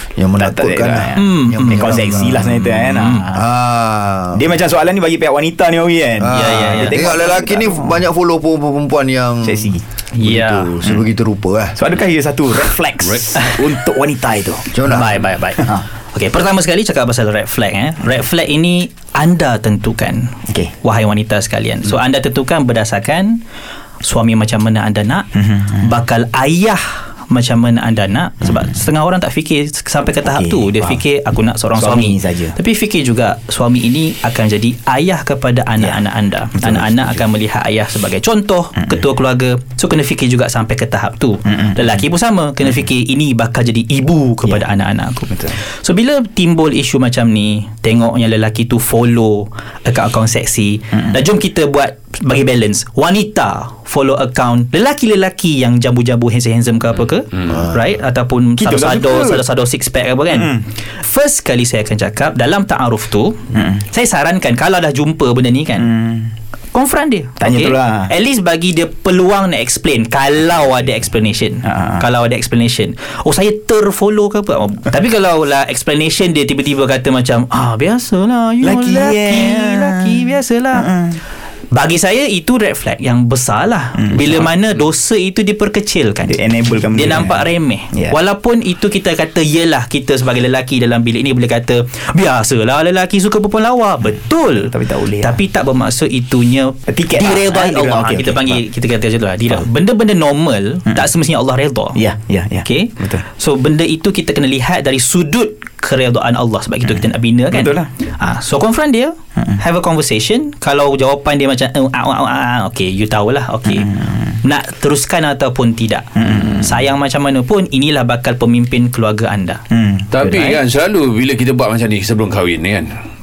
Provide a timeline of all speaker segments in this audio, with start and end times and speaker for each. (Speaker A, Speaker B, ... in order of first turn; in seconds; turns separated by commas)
Speaker A: 0.1-4.4, Speaker B: 0.4-3.3, Speaker C: 1.1-3.4, Speaker B: 4.3-8.1, Speaker A: 6.2-11.7, Speaker C: 6.3-7.1, Speaker B: 9.4-9.8, Speaker C: 10.1-10.8, Speaker B: 11.7-14.9, Speaker A: 14.7-15.2, Speaker C: 14.8-23.4, Speaker B: 15.5-15.8, Speaker C: 24.0-65.9, Speaker B: 25.4-25.8, Speaker B: 30.2-31.0, Speaker B: 31.8-32.5, Speaker B: 36.5-37.2, Speaker B: 41.5-42.0, Speaker B: 45.3-45.6, Speaker B: 58.6-59.4, Speaker B: 60.3-60.6, Speaker B: 63.5-63.8, Speaker B: 65.8-66.3, Speaker C: 66.7-80.9, Speaker B: 67.4-68.1, Speaker B: 71.6-72.0, Speaker B: 78.6-81.2, Speaker C: 81.7-86.4, Speaker B: 84.0-84.5, Speaker B: 86.2-88.2, Speaker C: 86.9-102.0, Speaker B: 94.5-95.4, Speaker B: 96.9-98.6, Speaker B: 101.9-103.2, Speaker C: 102.6-119.6, Speaker B: 107.5-107.9, Speaker B: 113.7-114.3, Speaker B: 116.2-116.7, Speaker B: 119.7-120.1, Speaker D: 120.1-122.9, Speaker C: 120.2-120.6